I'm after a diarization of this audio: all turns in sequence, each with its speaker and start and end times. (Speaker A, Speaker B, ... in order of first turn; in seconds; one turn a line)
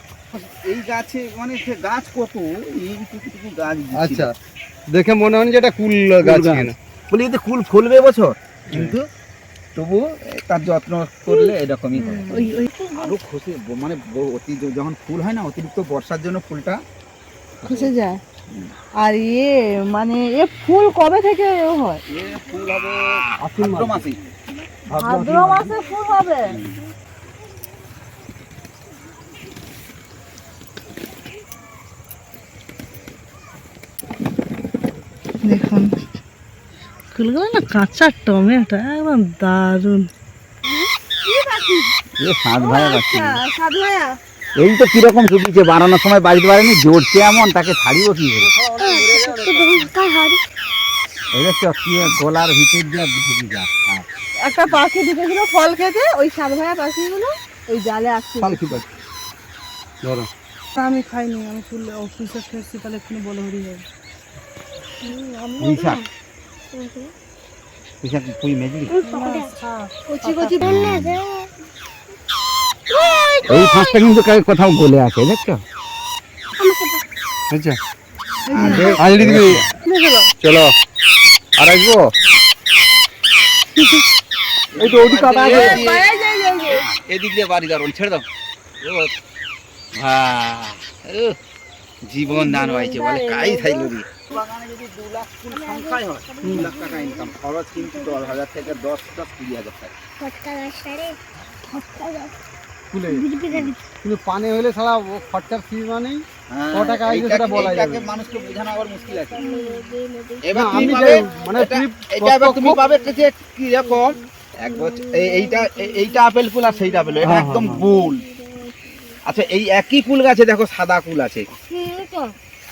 Speaker A: 0.3-4.3
Speaker B: 3.9-4.3
Speaker B: 4.9-6.7
Speaker A: 6.2-9.0
Speaker A: 9.8-16.8
Speaker C: 12.0-12.6
Speaker C: 17.6-18.2
Speaker C: 19.0-22.0
Speaker A: 22.1-24.2
Speaker B: 23.4-24.0
Speaker C: 24.9-26.5
Speaker B: 24.9-25.7
Speaker A: 26.5-26.8
Speaker C: 35.5-35.9
Speaker D: 37.1-40.1
Speaker C: 41.2-41.9
Speaker A: 42.2-43.4
Speaker C: 42.6-44.1
Speaker A: 44.6-48.5
Speaker B: 48.4-49.9
Speaker E: 48.8-50.4
Speaker A: 51.3-54.0
Speaker C: 54.4-58.6
Speaker B: 58.4-58.8
Speaker B: 60.0-60.3
Speaker D: 60.7-63.8
Speaker D: 65.0-65.8
Speaker A: 65.6-66.0
Speaker E: 66.7-67.1
Speaker A: 68.0-68.9
Speaker E: 68.9-69.5
Speaker D: 69.0-70.6
Speaker C: 70.1-70.7
Speaker A: 70.6-71.2
Speaker E: 70.6-71.5
Speaker E: 73.1-74.0
Speaker A: 73.5-75.6
Speaker E: 76.6-77.0
Speaker B: 77.5-77.8
Speaker C: 78.5-79.0
Speaker A: 78.5-79.7
Speaker B: 78.7-79.7
Speaker D: 79.8-80.3
Speaker B: 80.4-80.7
Speaker B: 81.6-82.1
Speaker A: 84.7-86.0
Speaker B: 84.8-85.8
Speaker C: 85.4-86.8
Speaker A: 86.7-88.2
Speaker A: 88.8-89.1
Speaker A: 90.0-91.3
Speaker A: 92.0-99.9
Speaker C: 92.4-92.8
Speaker E: 92.6-93.5
Speaker E: 95.5-98.4
Speaker B: 96.4-96.7
Speaker E: 100.2-101.2
Speaker E: 101.7-102.3
Speaker B: 102.9-103.2
Speaker E: 103.0-103.9
Speaker B: 104.0-108.1
Speaker A: 106.5-109.5
Speaker E: 107.5-111.7
Speaker C: 109.4-109.8
Speaker A: 110.4-118.2
Speaker B: 110.5-112.8
Speaker E: 112.7-113.3
Speaker E: 113.8-119.5
Speaker B: 117.2-117.9
Speaker A: 119.2-121.5
Speaker E: 121.7-122.3